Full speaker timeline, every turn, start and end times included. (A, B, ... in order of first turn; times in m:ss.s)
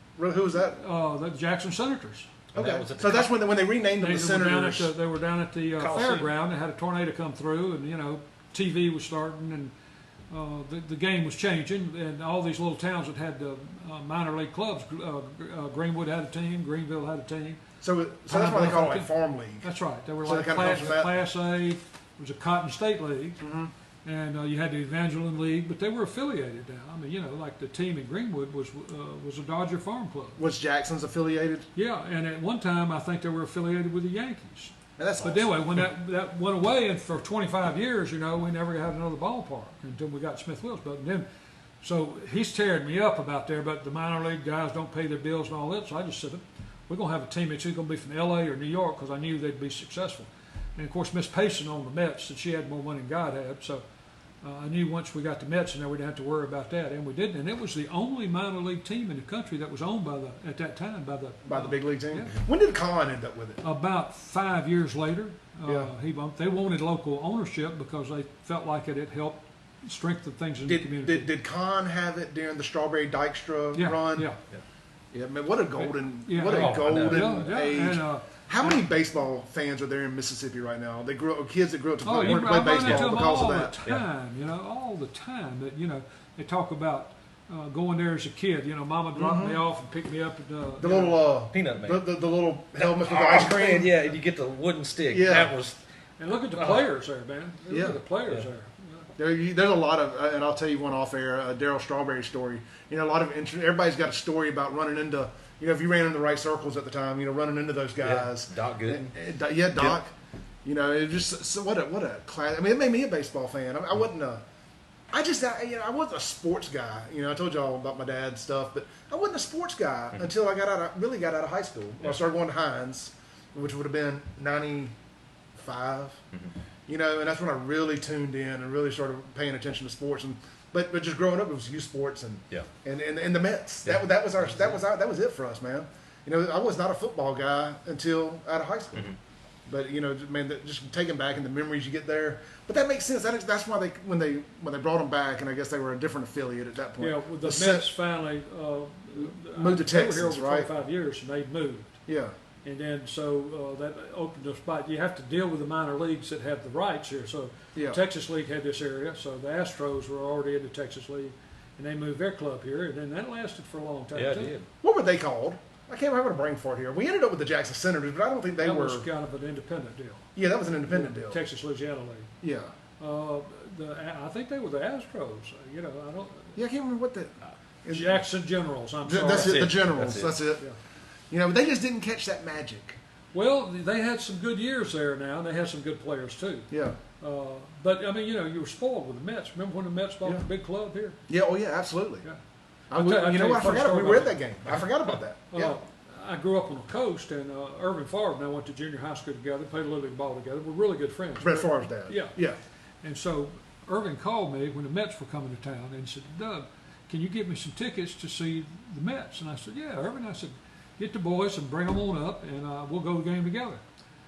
0:00.2-0:00.8 A
0:00.6-0:02.3 B
0:02.5-0:03.3 C
0:02.5-0:04.9 A
0:04.0-0:09.7 B
0:05.7-0:06.3 C
0:10.3-0:17.6 B
0:17.8-0:19.7 A
0:18.3-0:19.1 B
0:19.6-0:23.4 B
0:20.2-0:21.1 A
0:23.4-0:23.7 A
0:24.0-0:30.4 B
0:30.4-0:31.7 A
0:31.8-0:41.3 B
0:35.0-0:35.8 A
0:41.8-0:53.8 B
0:54.4-1:02.3 B
1:01.4-1:03.6 A
1:03.6-1:11.3 B
1:05.7-1:05.9 A
1:10.7-1:14.3 A
1:13.8-1:14.4 B
1:15.1-1:23.8 A
1:16.2-1:18.8 B
1:16.4-1:17.6 C
1:22.0-1:31.2 B
1:22.2-1:23.1 C
1:29.1-1:29.6 A
1:30.8-1:34.0 A
1:31.5-1:32.1 C
1:32.8-1:35.8 C
1:35.1-1:35.6 A
1:36.2-1:39.1 B
1:36.4-1:36.8 C
1:37.7-1:38.0 A
1:39.2-1:50.1 A
1:48.0-1:49.1 C
1:50.6-1:54.4 A
1:55.1-2:04.9 A
2:05.6-2:06.2 A
2:06.9-2:19.1 A
2:13.8-2:14.8 C
2:19.7-2:27.9 A
2:27.0-2:32.0 B
2:29.2-2:30.7 A
2:32.1-2:32.3 A
2:32.6-2:44.6 B
2:37.8-2:38.0 A
2:44.1-2:44.7 C
2:44.8-2:49.1 A
2:48.6-2:50.3 B
2:50.4-2:51.4 A
2:50.9-2:52.3 B
2:52.4-2:52.7 A
2:53.0-2:56.6 B
2:56.6-2:58.2 A
2:57.9-2:59.8 B
2:59.0-3:00.6 A
2:59.3-3:00.4 C
3:01.3-3:03.0 A
3:03.3-3:11.2 B
3:06.7-3:07.0 A
3:11.3-3:12.2 A
3:12.9-3:15.8 A
3:12.9-3:14.9 B
3:15.5-3:22.3 B
3:21.4-3:22.6 A
3:23.0-3:33.8 B